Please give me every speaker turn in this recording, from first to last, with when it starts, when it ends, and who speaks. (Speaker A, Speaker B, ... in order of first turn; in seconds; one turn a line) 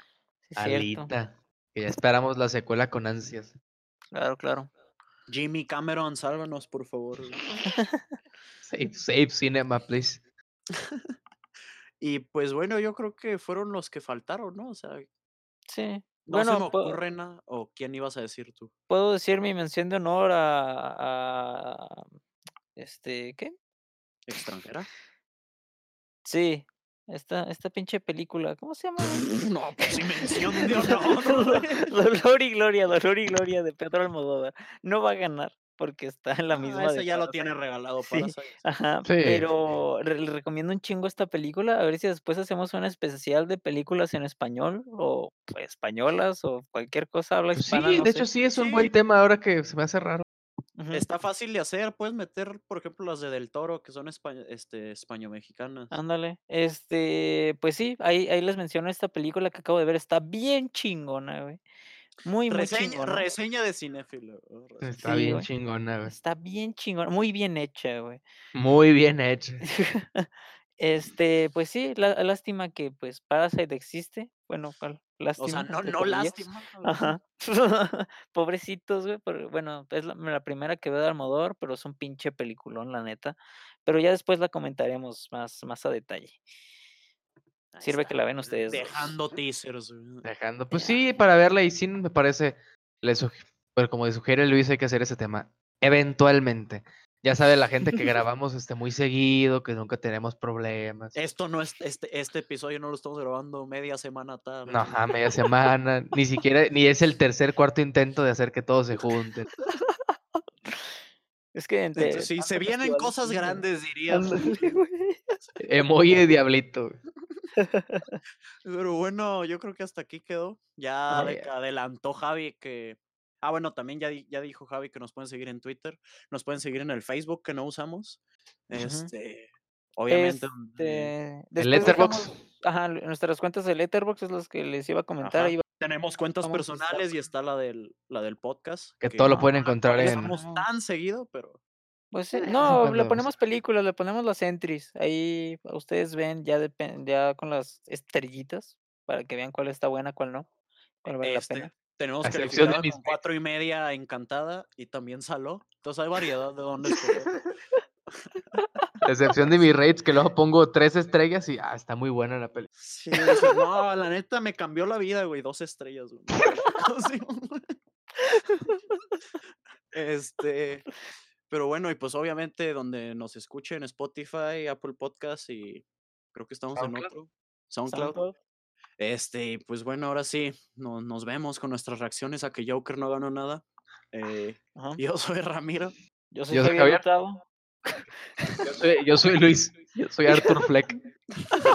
Speaker A: 0.5-1.1
Speaker B: 0.6-3.5
Speaker A: 4.1-4.7
Speaker C: 5.3-7.4
Speaker B: 8.6-10.2
Speaker C: 10.7-11.0
Speaker C: 12.0-15.1
Speaker A: 15.7-17.0
Speaker C: 16.3-18.7
Speaker A: 18.9-22.1
Speaker A: 22.8-23.5
Speaker C: 24.3-24.9
Speaker A: 26.2-37.5
Speaker C: 29.1-31.9
Speaker C: 36.5-38.6
Speaker A: 38.0-48.3
Speaker B: 39.0-39.5
Speaker B: 47.5-50.2
Speaker C: 48.5-48.9
Speaker A: 50.8-51.0
Speaker C: 50.9-55.9
Speaker A: 55.9-61.6
Speaker A: 62.2-63.2
Speaker C: 62.5-65.0
Speaker B: 64.8-66.1
Speaker A: 65.0-65.5
Speaker A: 66.0-68.2
Speaker B: 68.5-69.6
Speaker A: 69.7-86.4
Speaker C: 75.4-77.2
Speaker C: 87.7-90.2
Speaker A: 87.8-89.2
Speaker B: 90.2-101.2
Speaker A: 90.7-91.0
Speaker C: 101.1-105.0
Speaker B: 104.7-109.5
Speaker A: 109.6-110.1
Speaker A: 111.5-115.3
Speaker C: 112.0-114.5
Speaker B: 115.6-117.0
Speaker A: 117.5-118.2
Speaker C: 118.6-131.1
Speaker B: 121.1-121.5
Speaker A: 128.7-129.1
Speaker A: 130.1-135.6
Speaker B: 131.6-132.3
Speaker C: 135.2-141.6
Speaker A: 136.4-137.2
Speaker B: 139.0-140.3
Speaker A: 140.0-140.7
Speaker A: 142.1-150.5
Speaker B: 142.6-143.3
Speaker A: 151.0-151.7
Speaker C: 151.2-157.4
Speaker B: 152.2-153.2
Speaker B: 159.0-162.7
Speaker C: 162.8-167.7
Speaker A: 163.2-163.5
Speaker A: 168.2-168.8
Speaker C: 169.9-170.9
Speaker C: 171.5-178.2
Speaker B: 176.8-177.1
Speaker A: 177.9-178.3
Speaker C: 179.0-185.9
Speaker A: 186.3-188.6
Speaker B: 186.5-187.0
Speaker B: 188.6-190.9
Speaker A: 190.3-190.6